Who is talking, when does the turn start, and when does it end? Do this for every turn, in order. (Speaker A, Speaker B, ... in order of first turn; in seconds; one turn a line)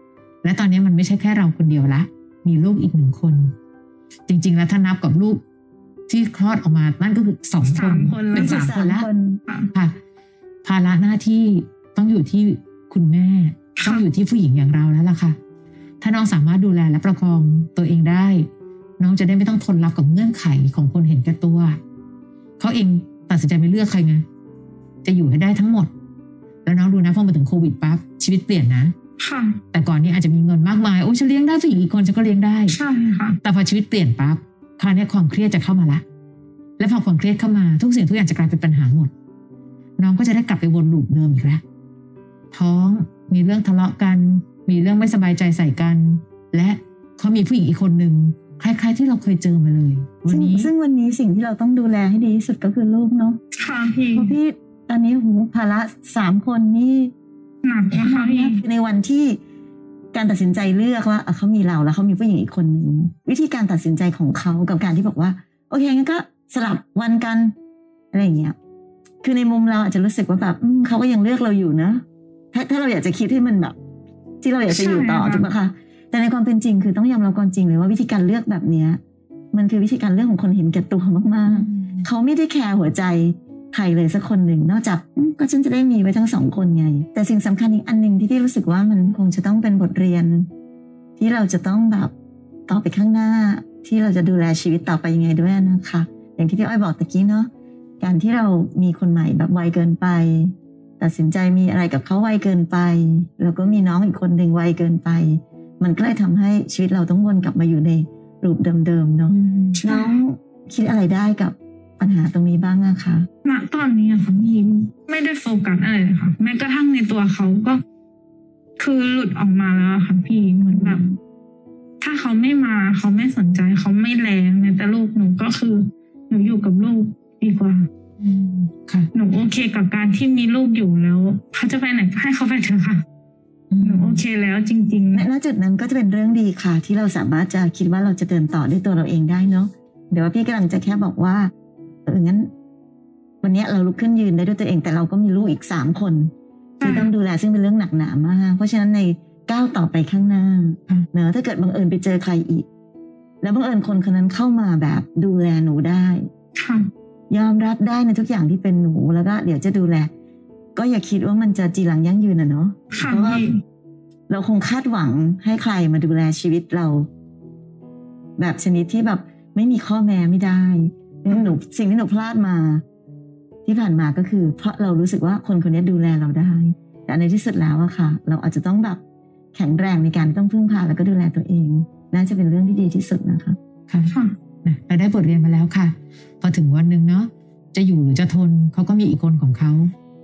Speaker A: 0.4-3.5
Speaker A: 4.3-5.4
Speaker A: 6.1-9.1
Speaker B: 7.6-8.8
Speaker C: 8.3-9.4
Speaker A: 10.6-15.4
Speaker B: 13.8-14.1
Speaker A: 16.0-18.5
Speaker A: 19.0-21.8
Speaker A: 22.6-24.2
Speaker A: 25.0-25.9
Speaker A: 26.6-28.9
Speaker B: 29.2-29.6
Speaker A: 29.7-32.8
Speaker B: 32.7-33.4
Speaker A: 33.4-36.0
Speaker A: 36.8-39.1
Speaker A: 40.0-41.6
Speaker A: 42.5-50.7
Speaker C: 50.3-53.4
Speaker B: 53.5-54.4
Speaker C: 54.1-57.1
Speaker B: 57.6-58.6
Speaker C: 58.0-59.4
Speaker C: 60.1-67.5
Speaker C: 68.1-68.6
Speaker C: 69.2-73.8
Speaker C: 74.4-79.0
Speaker B: 74.7-75.5
Speaker C: 79.5-90.5
Speaker A: 81.5-82.1
Speaker C: 91.2-92.1
Speaker C: 92.7-97.5
Speaker C: 98.0-113.3
Speaker A: 109.3-109.8
Speaker B: 109.7-110.1
Speaker B: 113.4-117.8
Speaker B: 118.8-121.0
Speaker C: 120.7-121.2
Speaker B: 122.0-127.9
Speaker A: 128.2-129.1
Speaker B: 129.1-133.0
Speaker A: 133.7-134.2
Speaker B: 133.8-135.3
Speaker C: 135.1-141.5
Speaker C: 142.1-142.5
Speaker C: 143.4-152.7
Speaker B: 146.8-147.1
Speaker C: 153.4-156.3
Speaker B: 156.6-156.9
Speaker C: 157.3-160.1
Speaker C: 160.8-163.4
Speaker B: 162.9-163.6
Speaker C: 164.3-167.1
Speaker C: 168.4-172.8
Speaker C: 173.7-179.0
Speaker C: 179.6-183.6
Speaker A: 183.9-189.9
Speaker B: 184.1-184.4